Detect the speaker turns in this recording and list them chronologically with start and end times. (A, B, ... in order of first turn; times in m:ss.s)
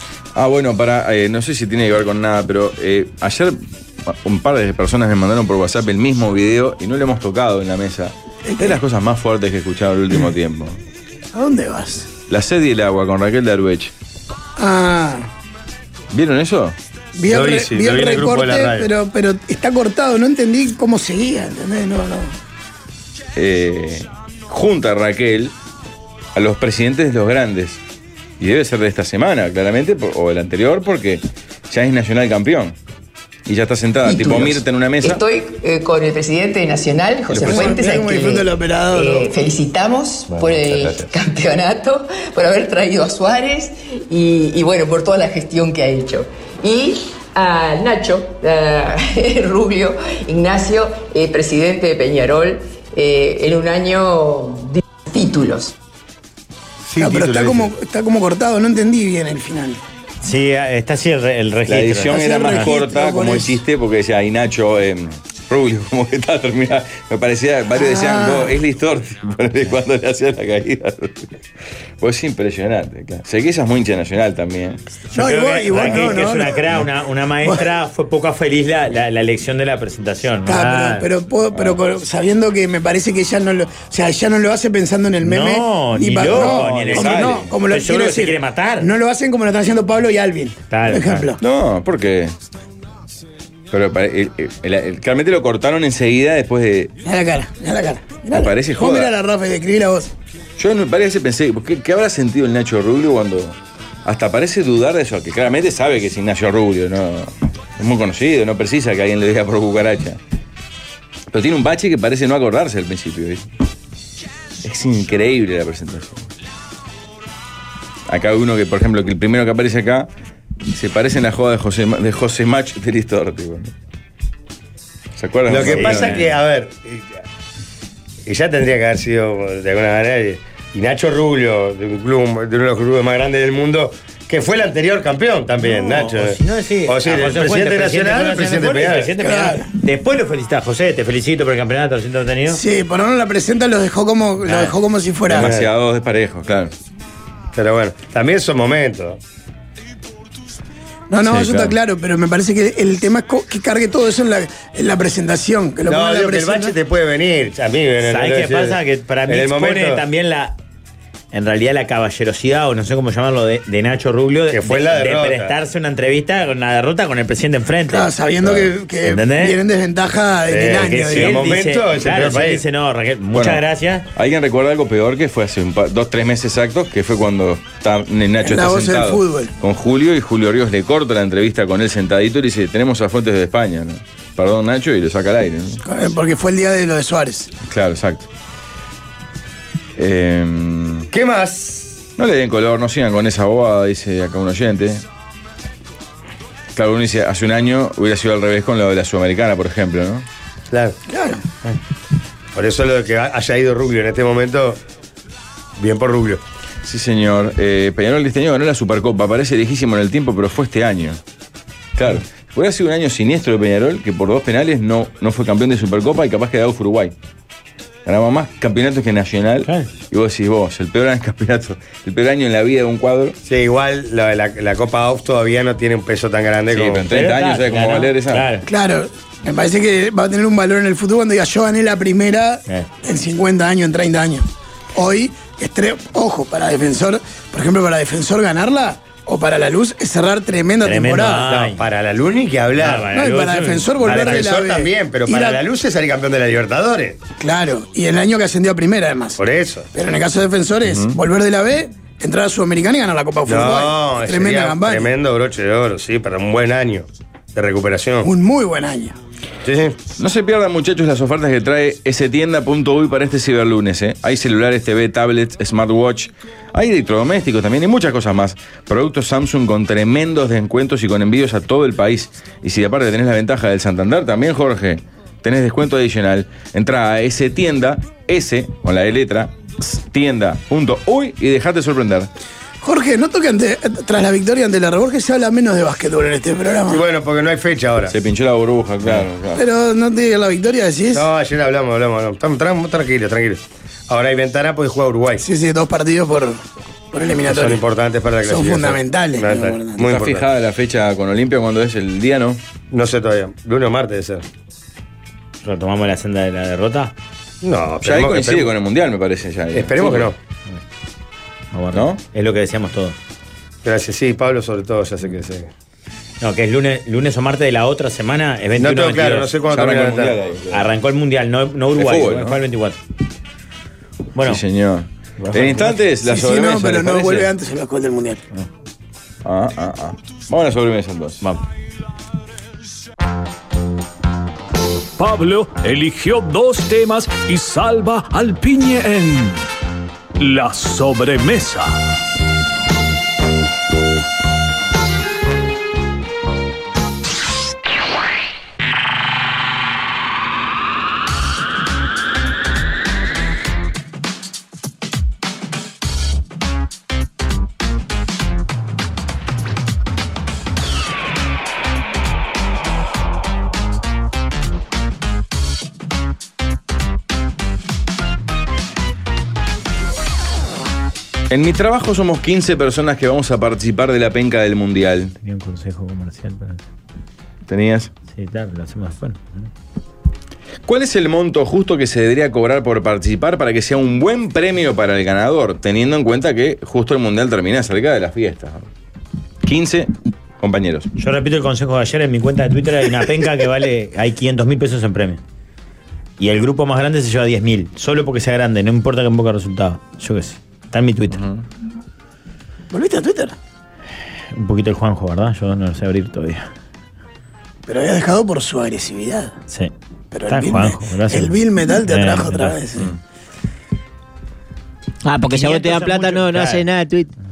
0:00.4-0:10.8 A
0:08.5-0:08.8 B
0:11.3-0:12.1 B
0:12.3-0:13.9 A
0:14.6-0:15.3 B
0:16.1-0:16.8 A
0:17.2-0:22.4 B
0:17.3-0:18.9 C
0:23.4-0:25.5 A
0:26.4-0:27.8 A
0:28.4-0:32.8 A
0:33.5-0:35.2 A
0:34.0-0:55.8 D
0:37.3-0:37.8 A
0:37.4-0:39.3 B
0:40.4-0:41.1 A
0:56.8-0:57.7 C
0:57.0-0:59.8 B
1:00.2-1:02.7 E
1:01.7-1:11.3 A
1:02.1-1:03.6 B
1:07.7-1:08.6 B
1:12.0-1:14.8 A
1:15.1-1:16.6 B
1:15.1-1:21.1 E
1:20.5-1:31.4 B
1:25.2-1:28.9 E
1:26.2-1:27.5 A
1:30.7-1:31.3 E
1:31.4-1:32.3 A
1:33.7-1:36.9 A
1:37.0-1:40.1 B
1:38.3-1:39.1 A
1:40.6-1:50.2 A
1:51.3-1:53.4 A
1:54.6-1:56.2 A
1:58.1-2:00.1 A
2:00.7-2:03.7 A
2:05.2-2:06.3 A
2:05.5-2:07.1 C
2:05.6-2:06.3 E
2:08.3-2:19.2 C
2:15.6-2:22.6 E
2:19.2-2:19.7 B
2:22.5-2:25.5 B
2:24.5-2:24.7 E
2:25.3-2:26.7 A
2:25.4-2:25.7 C
2:27.5-2:29.2 C
2:31.1-2:36.8 B
2:31.2-2:31.8 A
2:35.9-2:40.0 C
2:38.0-2:40.6 E
2:41.3-2:48.1 E
2:44.5-2:45.5 C
2:47.9-2:51.5 B
2:49.0-2:49.6 E
2:50.5-2:52.6 C
2:50.8-2:54.1 E
2:53.3-3:05.8 A
2:58.4-2:59.5 B
3:05.8-3:07.5 B
3:07.6-3:08.3 A
3:10.0-3:11.1 A
3:11.1-3:12.0 C
3:12.2-3:15.0 A
3:16.8-3:20.2 A
3:20.7-3:21.0 C
3:21.1-3:21.4 B
3:22.6-3:24.8 C
3:25.8-3:26.4 C
3:26.8-3:31.2 A
3:32.0-3:37.1 A
3:38.1-3:43.4 A
3:43.4-3:47.1 C
3:46.7-3:48.5 A
3:47.1-3:48.7 E
3:48.7-4:01.5 B
4:00.8-4:01.8 E
4:01.4-4:03.1 C
4:02.8-4:04.5 E
4:03.1-4:05.6 B
4:04.0-4:07.2 C
4:07.4-4:09.4 B
4:09.4-4:09.9 C
4:09.9-4:15.1 B
4:10.9-4:11.2 A
4:13.5-4:18.3 C
4:18.2-4:19.2 B
4:19.6-4:20.0 C
4:20.2-4:42.3 A
4:42.8-4:47.0 B
4:46.9-4:48.2 C
4:48.1-4:49.6 A
4:49.6-4:51.3 B
4:51.1-4:55.4 C
4:55.4-4:57.8 B
4:57.4-5:00.5 C
4:58.4-5:00.1 B
5:00.0-5:02.6 A
5:02.9-5:04.4 C
5:05.6-5:07.1 E
5:07.6-5:08.8 C
5:08.0-5:10.3 A
5:09.7-5:10.4 C
5:11.7-5:13.2 E
5:11.9-5:12.2 A
5:13.8-5:15.7 C
5:16.4-5:19.6 E
5:18.8-5:20.4 C
5:19.7-5:20.9 A
5:20.7-5:23.0 E
5:21.9-5:22.6 A
5:24.4-5:24.6 E
5:24.4-5:27.5 A
5:25.4-5:26.0 E
5:26.2-5:28.4 B
5:29.4-5:31.4 A
5:35.2-5:39.7 F
5:40.4-5:42.0 F
6:11.5-6:15.3 A
6:15.4-6:16.8 E
6:17.7-6:18.1 A
6:18.3-6:19.7 E
6:20.8-6:28.9 A
6:29.6-6:31.1 A
6:31.2-6:35.4 E
6:36.4-6:41.4 E
6:42.9-6:43.6 B
6:44.5-6:46.7 E
6:47.9-6:49.6 B
6:50.3-6:53.1 B
6:50.5-6:52.8 E
6:55.2-6:57.3 G
6:55.5-6:56.8 E